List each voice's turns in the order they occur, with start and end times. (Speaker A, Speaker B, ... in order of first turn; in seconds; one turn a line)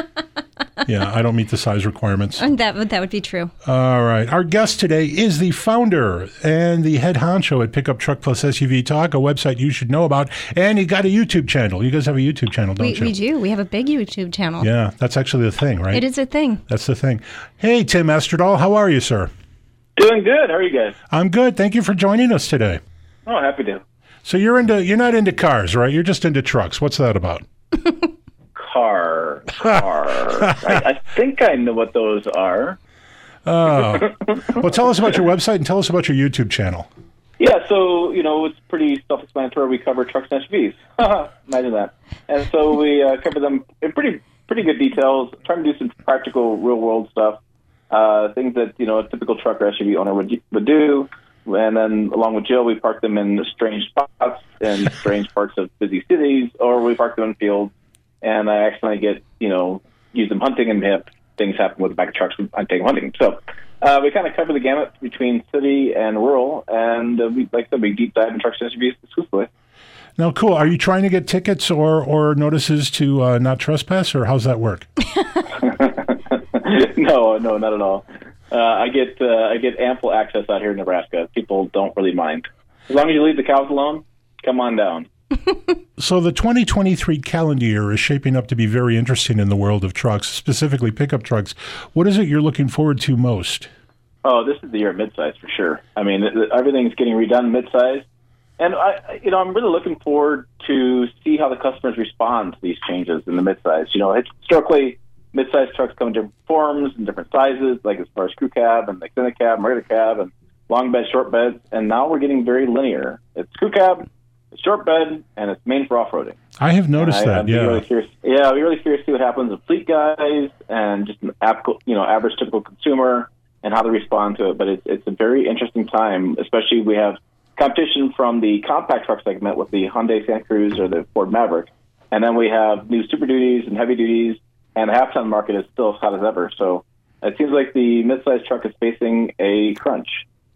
Speaker A: 0.8-2.4
Speaker B: 2.4-3.5
Speaker A: 3.6-13.2
Speaker B: 12.8-14.7
Speaker A: 14.6-16.1
Speaker B: 15.9-16.6
Speaker A: 16.7-19.3
Speaker C: 20.0-21.0
Speaker A: 21.1-22.8
Speaker C: 23.3-23.8
Speaker A: 24.2-27.4
Speaker C: 28.6-32.8
Speaker A: 33.5-36.9
Speaker C: 33.8-34.6
Speaker C: 37.4-69.5
Speaker A: 70.2-74.9
Speaker C: 75.6-85.1
Speaker A: 86.0-93.7
Speaker C: 94.2-98.1
Speaker C: 98.6-116.4
Speaker A: 116.6-117.8
Speaker C: 117.0-140.2